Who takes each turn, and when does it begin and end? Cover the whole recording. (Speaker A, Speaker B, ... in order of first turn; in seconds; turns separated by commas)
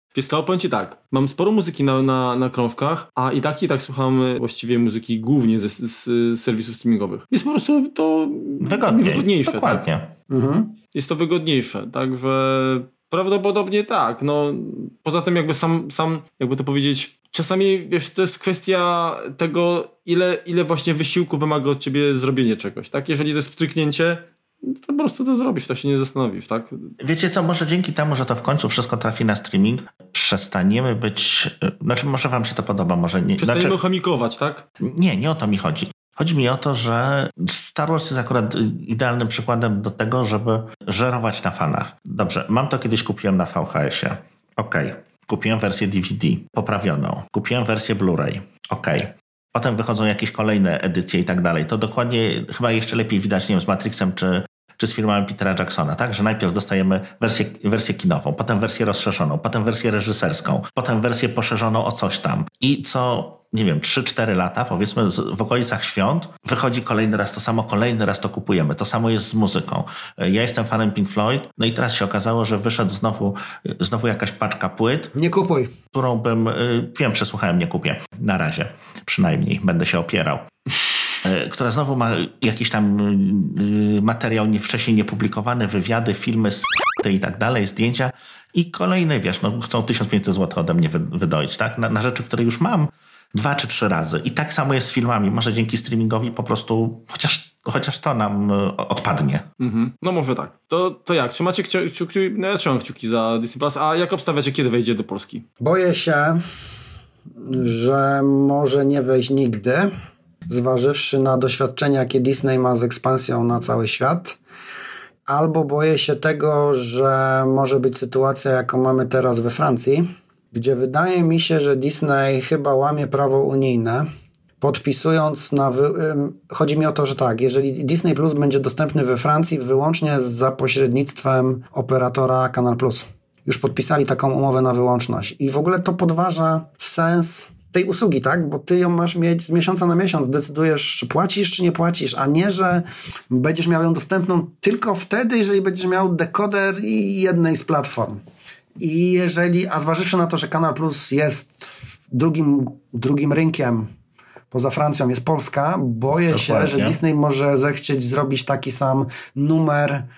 Speaker A: 0.1-9.8, Speaker B: 8.6-10.1, Speaker C: 10.3-10.8, Speaker A: 10.9-26.8, Speaker B: 27.0-33.8, Speaker A: 33.4-34.6, Speaker B: 34.8-75.1, Speaker C: 75.1-75.7, Speaker B: 75.9-80.5, Speaker B: 81.2-99.5, Speaker A: 99.6-105.5, Speaker C: 105.6-106.4, Speaker C: 107.4-109.9, Speaker C: 110.5-114.4, Speaker C: 115.3-124.1, Speaker C: 124.6-148.2, Speaker C: 148.8-153.9, Speaker C: 154.5-160.1, Speaker B: 156.3-157.0